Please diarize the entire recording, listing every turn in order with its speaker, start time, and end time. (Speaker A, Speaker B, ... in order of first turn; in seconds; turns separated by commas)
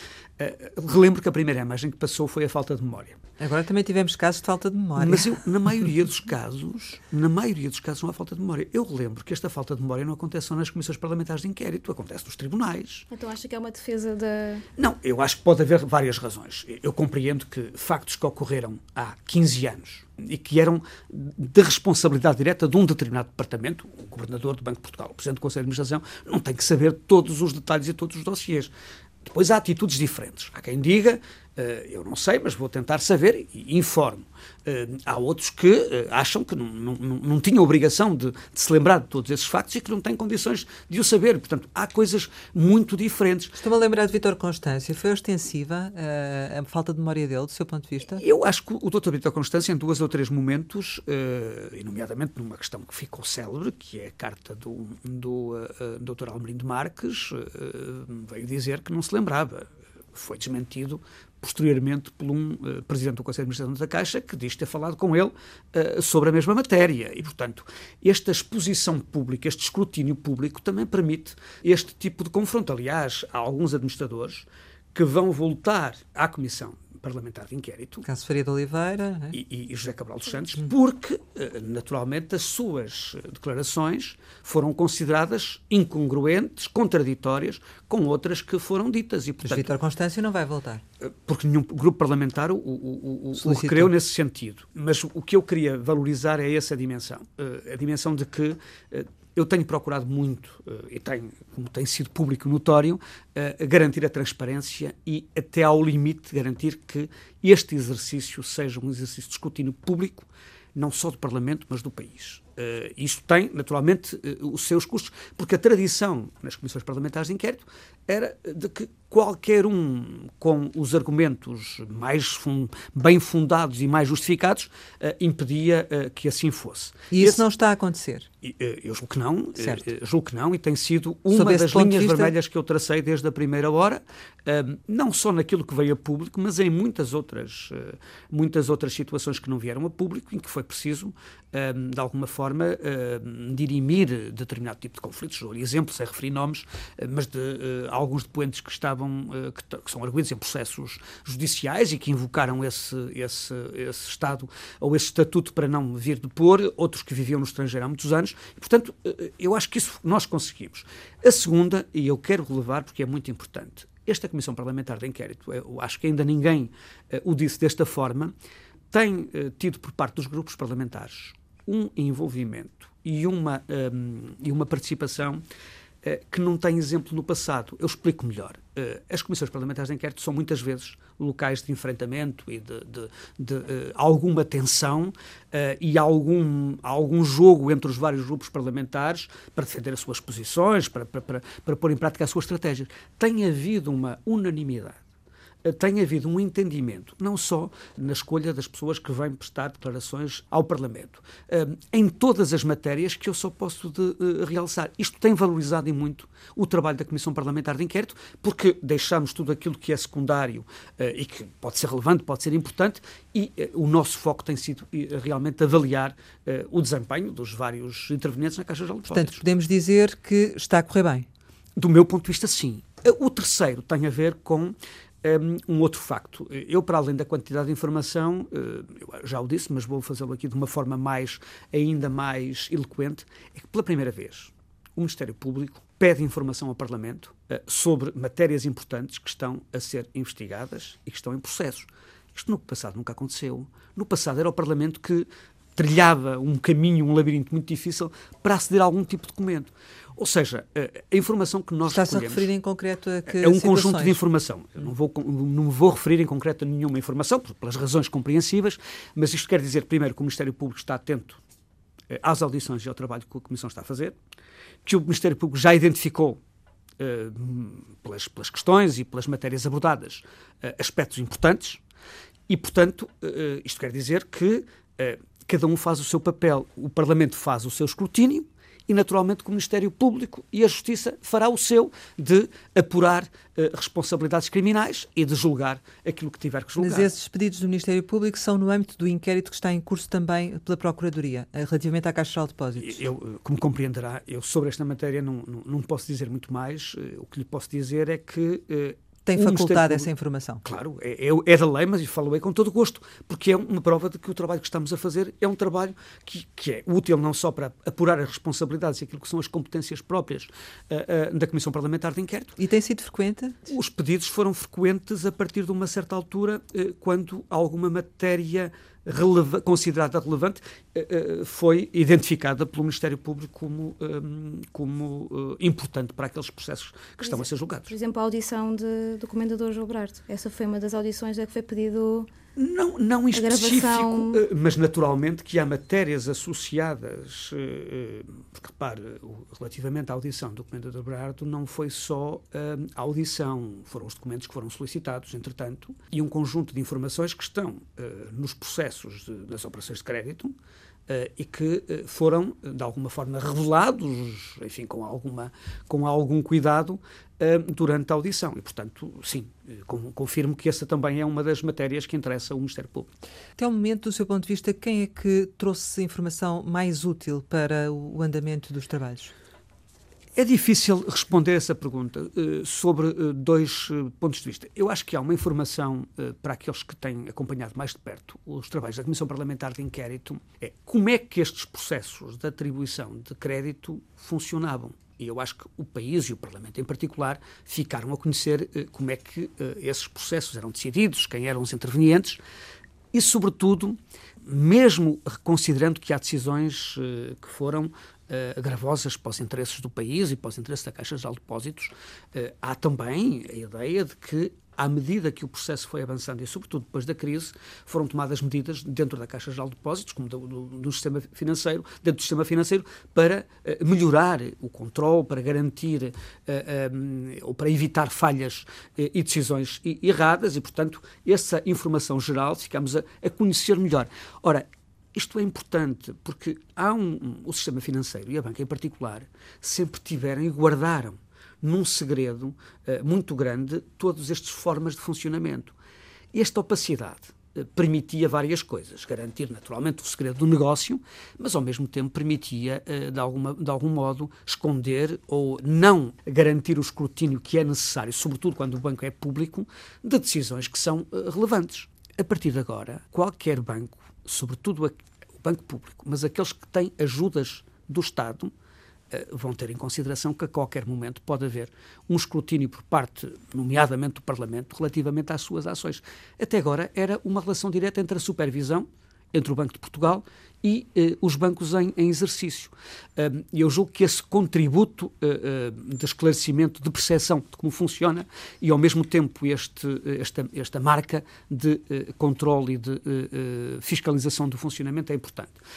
Speaker A: 0.4-3.2, Speaker B: 3.4-5.5, Speaker A: 5.0-13.1, Speaker C: 13.1-14.7, Speaker A: 14.8-28.7, Speaker A: 29.2-43.6, Speaker B: 43.6-48.2, Speaker A: 48.1-78.0, Speaker B: 78.0-79.4, Speaker A: 79.3-89.7, Speaker B: 89.4-90.8, Speaker A: 91.0-127.4, Speaker B: 93.4-93.9, Speaker B: 127.1-128.3, Speaker A: 128.4-168.3, Speaker B: 131.3-132.3, Speaker A: 168.9-175.4, Speaker A: 176.0-195.0, Speaker A: 195.6-219.4, Speaker B: 219.1-221.3, Speaker A: 221.8-252.5, Speaker B: 251.8-254.2, Speaker A: 253.3-261.4, Speaker A: 262.1-264.2, Speaker A: 264.9-266.4, Speaker A: 267.0-271.8, Speaker A: 272.5-287.1, Speaker B: 286.8-293.0, Speaker A: 292.8-300.1, Speaker B: 299.3-300.6, Speaker A: 300.6-312.6, Speaker B: 312.6-313.6, Speaker A: 313.7-327.9, Speaker C: 327.3-332.3, Speaker A: 332.6-350.5, Speaker C: 333.3-334.4, Speaker A: 351.1-363.1, Speaker B: 363.6-369.3, Speaker A: 370.4-392.4, Speaker A: 393.1-435.8, Speaker A: 436.3-458.5, Speaker A: 459.1-485.6